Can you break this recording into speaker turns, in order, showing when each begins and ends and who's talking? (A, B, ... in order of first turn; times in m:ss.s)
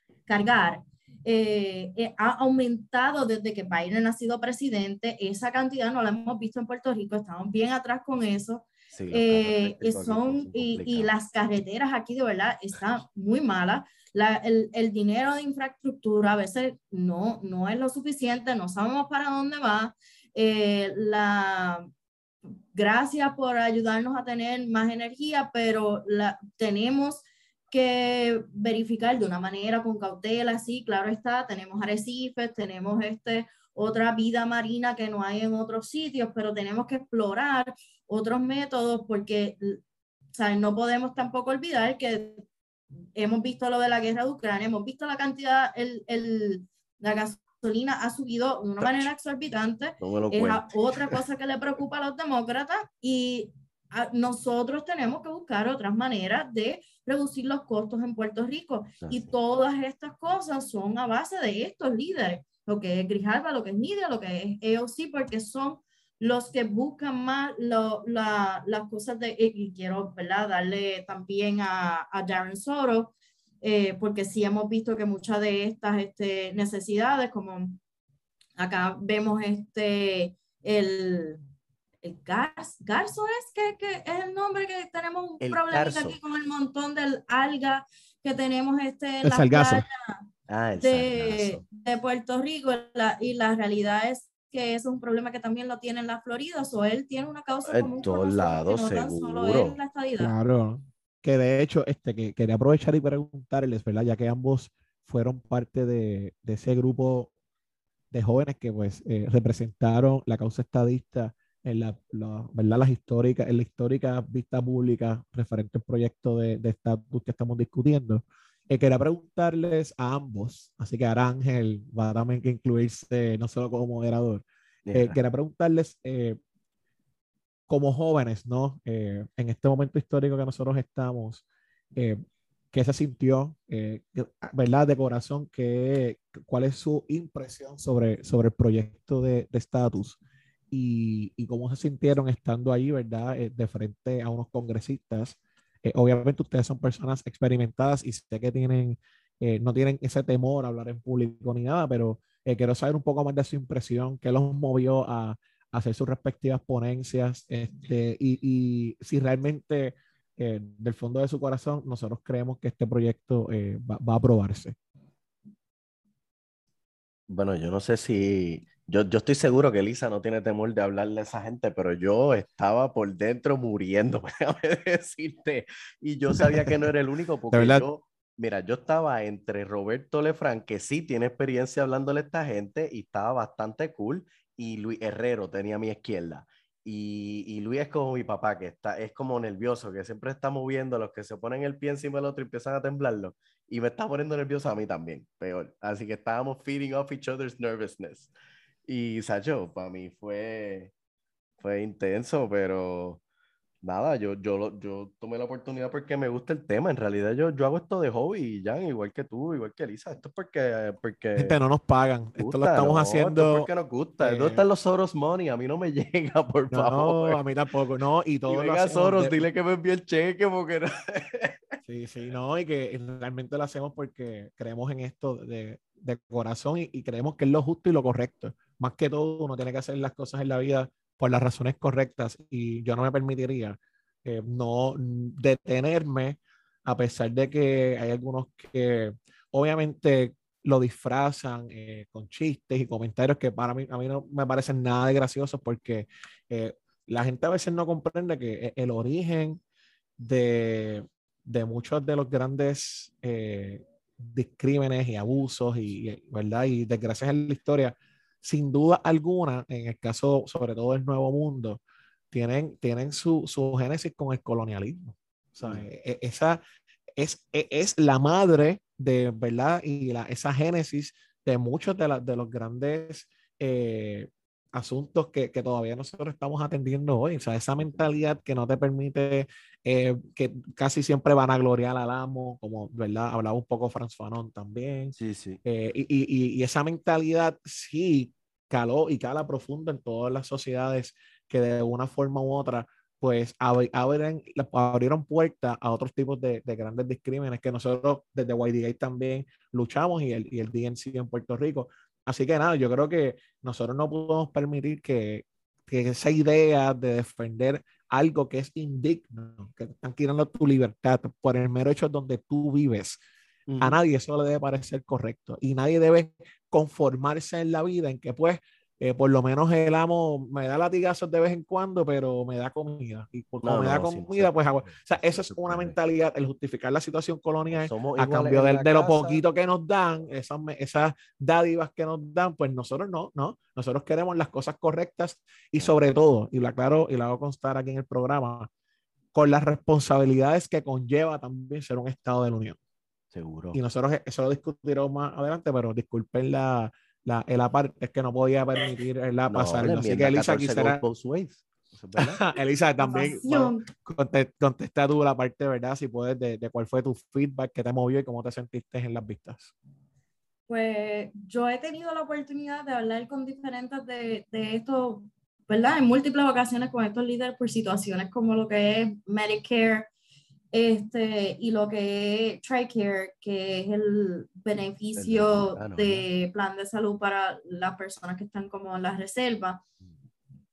0:00.3-0:21.9 A
0:08.9-0:11.1 B
0:22.7-0:39.8 A
0:40.3-0:42.4 A
0:43.2-1:17.8 A
0:48.8-0:49.1 B
0:50.0-0:51.2 B
0:59.0-0:59.3 B
1:18.6-1:21.4 A
1:22.0-1:30.3 A
1:25.4-1:26.2 B
1:29.2-1:29.8 C
1:30.5-1:31.6 B
1:30.8-1:40.3 A
1:37.7-1:39.8 B
1:40.2-1:47.3 C
1:48.1-2:06.4 C
2:04.9-2:05.2 B
2:07.7-2:12.2 C
2:12.7-2:20.2 C
2:20.7-2:44.8 C
2:47.3-3:18.3 B
2:56.4-2:56.7 C
2:57.5-2:57.8 C
3:18.9-3:20.9 B
3:21.6-3:23.2 B
3:23.8-3:31.6 B
3:31.4-3:33.7 C
3:32.4-3:37.4 B
3:34.2-3:34.6 C
3:36.7-3:39.5 C
3:38.5-3:41.6 B
3:41.8-4:09.6 C
4:10.2-4:21.8 C
4:22.3-4:26.6 C
4:27.2-5:13.2 C
4:37.8-4:38.1 B
4:45.2-4:45.6 B
5:13.7-5:14.0 B
5:13.8-5:38.7 C
5:23.6-5:26.0 B
5:27.7-5:29.4 B
5:39.3-5:42.8 C
5:43.3-5:43.8 B
5:43.7-5:51.0 C
5:49.5-5:52.4 B
5:52.2-5:59.7 C
5:53.0-5:53.9 A
6:00.7-6:10.1 A
6:10.7-6:19.8 A
6:15.2-6:16.3 B